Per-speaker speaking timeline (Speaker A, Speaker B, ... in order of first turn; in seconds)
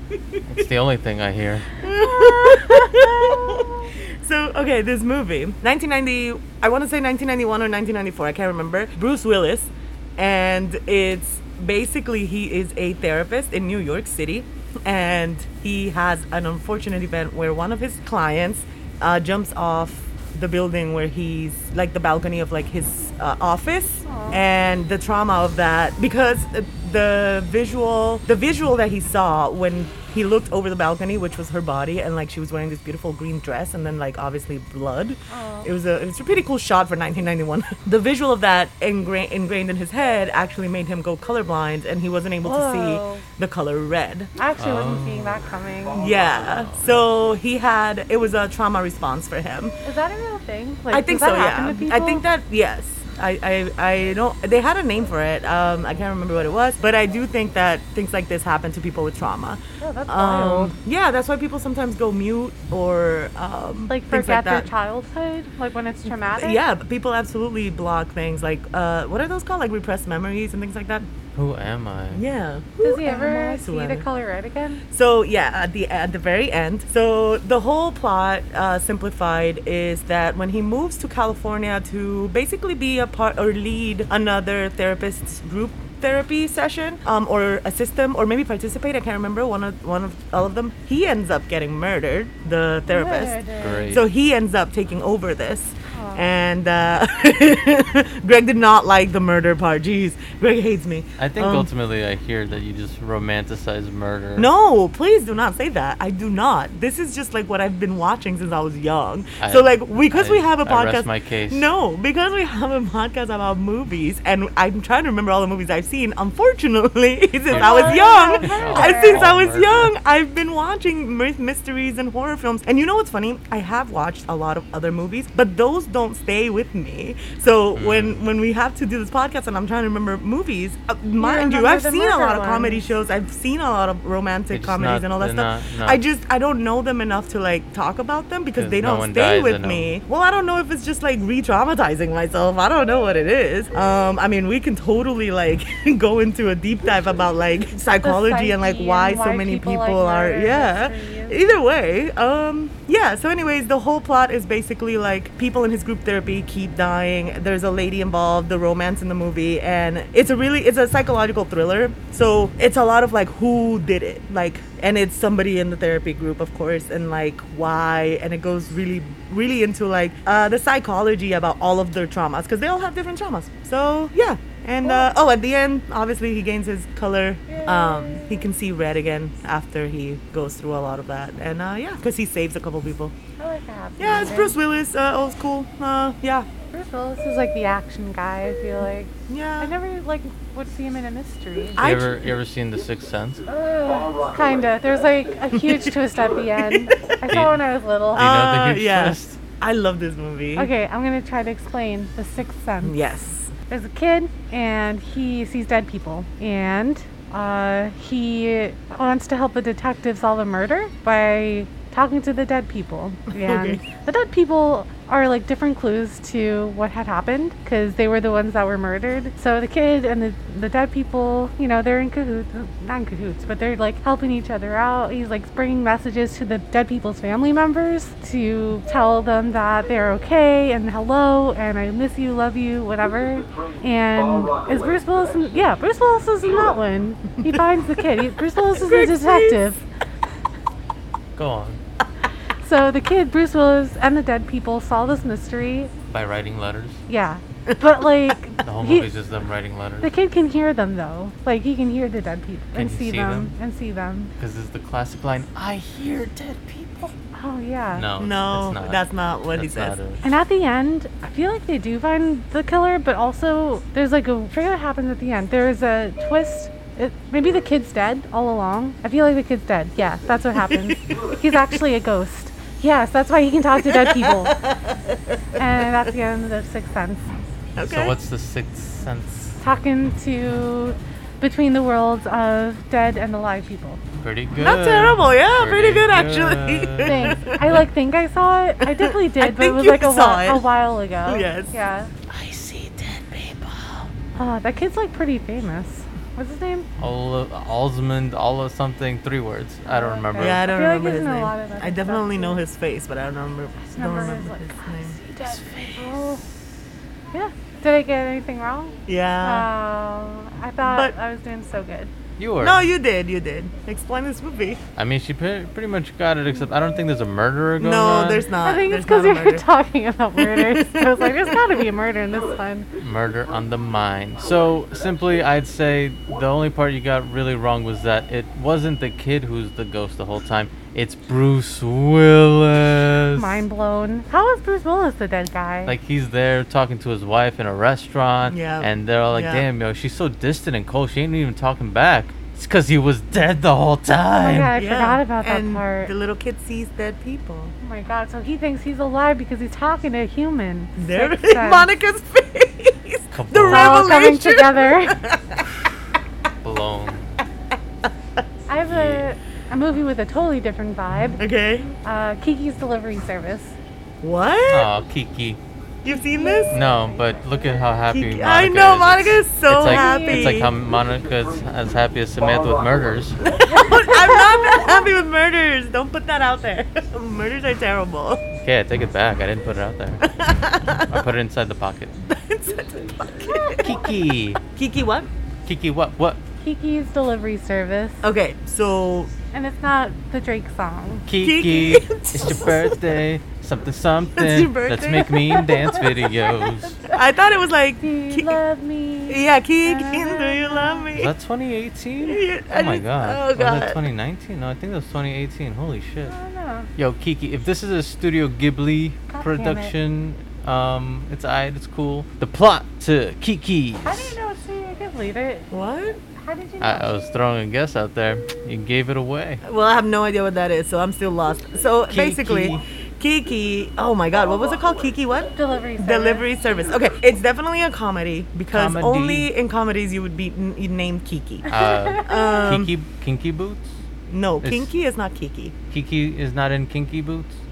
Speaker A: 0.5-1.7, 44.6-45.4, 46.4-47.0, 71.3-72.2, 93.6-94.0, 101.2-104.5, 109.4-111.7, 117.5-119.9, 127.7-128.2, 134.5-136.0, 138.6-139.9, 191.8-193.4, 197.3-197.6, 198.1-199.4, 241.3-241.8, 246.1-247.0, 248.6-250.1, 252.7-253.5, 254.4-257.1, 257.9-260.2, 277.8-279.6, 284.2-287.8, 292.3-294.1, 297.0-300.6, 305.4-306.4, 312.4-312.9, 314.9-318.4, 323.0-333.6, 335.9-344.7, 353.3-354.3, 356.6-357.4, 358.9-359.3, 364.7-365.6, 366.7-373.4, 378.6-382.1, 383.8-384.6, 385.6-386.4, 391.3-397.0, 401.1-406.3, 406.9-414.4, 416.8-419.6, 422.1-422.8, 428.7-429.5, 431.7-433.9, 434.6-434.9, 435.9-437.6
Speaker B: 1.8-3.9, 24.1-24.4, 35.3-35.7, 42.4-43.2, 44.4-46.2, 49.8-52.2, 59.8-60.7, 63.9-66.6, 72.8-74.8, 92.9-94.0, 95.9-96.2, 117.5-119.3, 131.2-132.8, 147.8-151.4, 177.5-178.4, 183.4-184.6, 186.7-191.8, 193.4-198.3, 200.6-203.0, 203.7-239.8, 242.6-245.9, 247.1-249.1, 250.0-254.3, 257.3-258.1, 260.2-274.5, 275.6-277.3, 279.6-284.0, 287.0-292.1, 294.3-296.9, 299.9-302.6, 303.9-306.4, 307.3-312.1, 318.6-322.9, 333.4-335.9, 344.4-346.1, 347.8-351.9, 353.7-355.2, 358.7-361.4, 362.0-363.7, 366.1-367.4, 369.8-370.7, 373.7-375.1, 383.5-384.1, 386.6-388.2, 389.5-391.3, 395.9-397.2, 398.0-401.1, 406.2-406.9, 409.3-409.9, 414.0-415.7, 416.4-417.2, 425.6-426.5, 431.7-432.8
Speaker C: 1.8-44.3, 45.9-49.7, 50.9-64.7, 66.3-71.1, 72.1-74.0, 74.9-101.7, 104.3-183.1, 184.0-186.5, 189.3-189.7, 191.8-192.3, 195.5-195.9, 196.6-197.1, 198.1-200.7, 202.8-203.5, 213.3-213.8, 238.7-239.6, 258.2-260.0, 270.7-271.6, 273.8-275.0, 277.8-278.1, 284.6-287.8, 288.8-290.7, 291.2-291.7, 300.4-305.2, 309.1-309.7, 310.8-311.1, 312.6-314.8, 317.8-319.6, 320.4-321.8, 338.5-339.6, 344.7-347.7, 351.0-355.6, 361.4-361.9, 364.2-364.9, 366.0-366.8, 368.1-370.7, 373.6-378.4, 380.3-381.2, 382.2-383.9, 384.7-385.3, 388.2-389.3, 391.4-393.1, 394.4-396.3, 397.1-398.6, 399.3-401.3, 402.2-404.0, 415.7-416.2, 419.6-432.9, 434.3-435.7